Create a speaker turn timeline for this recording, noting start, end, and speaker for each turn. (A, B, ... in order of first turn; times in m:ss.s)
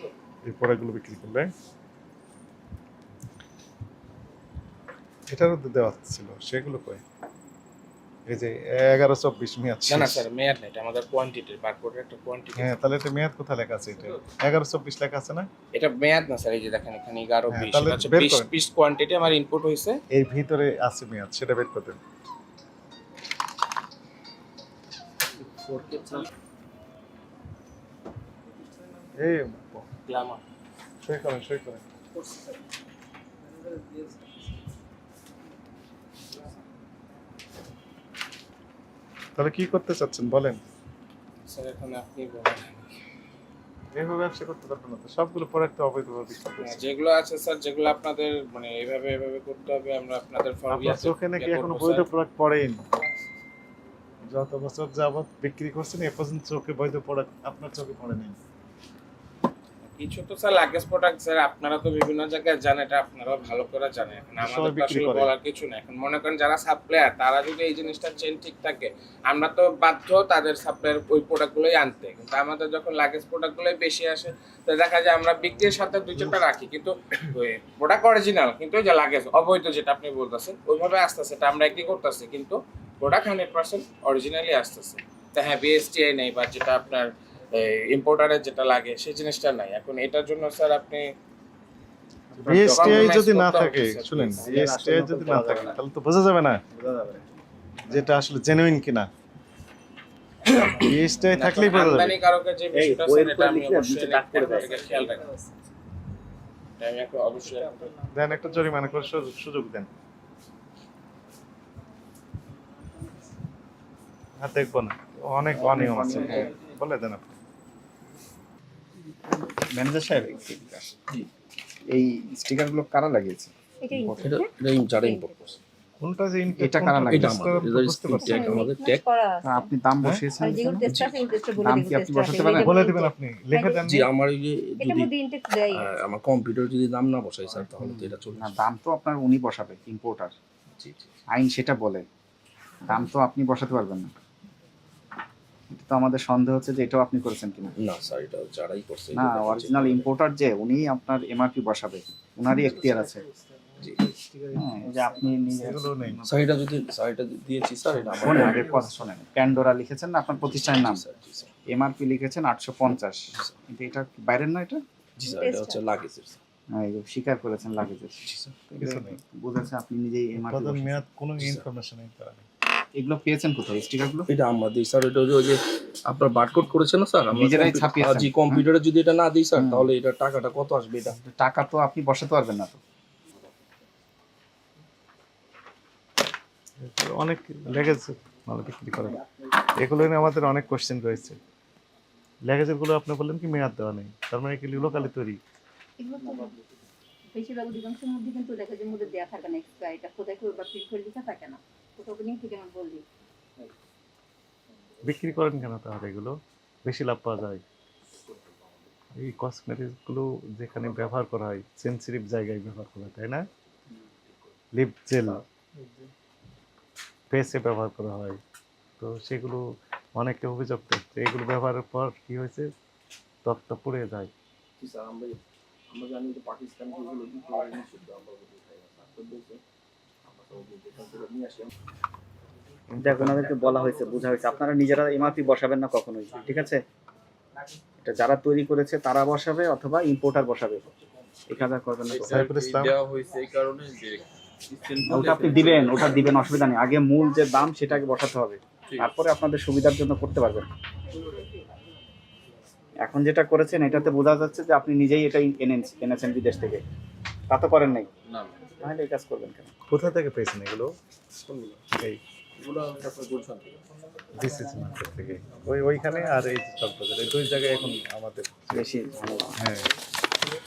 0:00.4-0:01.5 A
0:05.3-0:07.0 A
0:08.3-0:10.2 A
0:09.9-0:12.8 B
0:12.6-0:15.5 A
0:15.7-0:20.0 B
0:17.5-0:18.5 A
0:20.1-0:22.0 A
0:25.6-0:26.2 B
0:29.2-0:29.9 A
0:30.1-0:30.4 B
0:31.0-0:31.8 A
0:39.4-0:40.6 A
0:41.4-0:43.0 B
0:43.9-0:46.8 A
0:46.6-0:52.1 B
0:50.7-0:52.8 A
0:54.3-0:58.4 A
0:59.8-1:31.1 B
1:04.4-1:05.3 A
1:32.3-1:33.3 C
1:32.5-1:36.6 A
1:32.5-1:34.5 B
1:34.4-1:35.8 C
1:36.7-1:37.2 C
1:37.9-1:39.1 A
1:40.5-1:41.4 C
1:40.8-1:42.2 A
1:41.3-1:45.2 B
1:42.7-1:45.4 C
1:46.8-1:47.9 B
1:47.4-1:48.1 C
1:48.1-1:49.9 A
1:54.4-1:57.3 A
1:55.5-1:56.5 C
1:56.2-1:56.5 B
1:59.3-2:01.0 C
2:01.9-2:04.3 C
2:03.8-2:05.4 D
2:04.2-2:05.6 E
2:06.0-2:08.6 A
2:06.6-2:07.5 C
2:07.0-2:09.0 E
2:08.2-2:09.7 D
2:09.4-2:10.9 C
2:10.4-2:13.8 D
2:10.8-2:11.2 E
2:11.6-2:12.7 C
2:12.6-2:14.1 A
2:13.8-2:15.1 E
2:14.8-2:15.9 D
2:15.7-2:18.6 E
2:17.8-2:20.3 C
2:20.8-2:21.2 E
2:21.3-2:22.0 C
2:22.8-2:24.1 C
2:25.7-2:27.8 C
2:27.8-2:30.1 E
2:29.1-2:33.2 C
2:32.5-2:32.9 E
2:33.8-2:34.1 E
2:34.5-2:36.4 C
2:35.5-2:36.2 A
2:36.3-2:38.9 E
2:38.2-2:41.0 C
2:40.4-2:41.5 E
2:41.7-2:44.8 C
2:45.2-2:46.4 E
2:45.2-2:45.8 D
2:46.7-2:51.0 C
2:48.2-2:48.6 E
2:48.8-2:49.2 A
2:50.4-2:52.4 A
2:52.9-2:54.3 C
2:54.3-3:01.2 E
2:57.3-2:58.6 C
2:59.5-2:59.9 C
3:01.1-3:02.8 C
3:06.8-3:09.2 A
3:09.8-3:11.4 A
3:12.5-3:15.4 A
3:16.0-3:16.5 D
3:17.3-3:23.0 D
3:25.0-3:27.6 A
3:29.2-3:33.5 A
3:34.8-3:35.4 A
3:37.3-3:38.4 A
3:39.0-3:39.6 A
3:40.2-3:42.7 A
3:43.4-3:44.3 A
3:44.8-3:49.6 E
3:50.3-3:51.7 E
3:52.9-3:53.5 A
3:53.0-3:56.8 C
3:58.0-4:00.8 C
4:01.5-4:02.4 C
4:02.2-4:03.0 A
4:02.3-4:06.1 F
4:02.8-4:03.8 E
4:05.0-4:10.7 C
4:13.0-4:16.8 C
4:17.5-4:18.1 C
4:18.8-4:19.7 C
4:19.9-4:20.9 A
4:21.9-4:22.2 A
4:22.6-4:23.7 F
4:24.4-4:28.8 A
4:28.7-4:29.6 C
4:29.6-4:29.9 A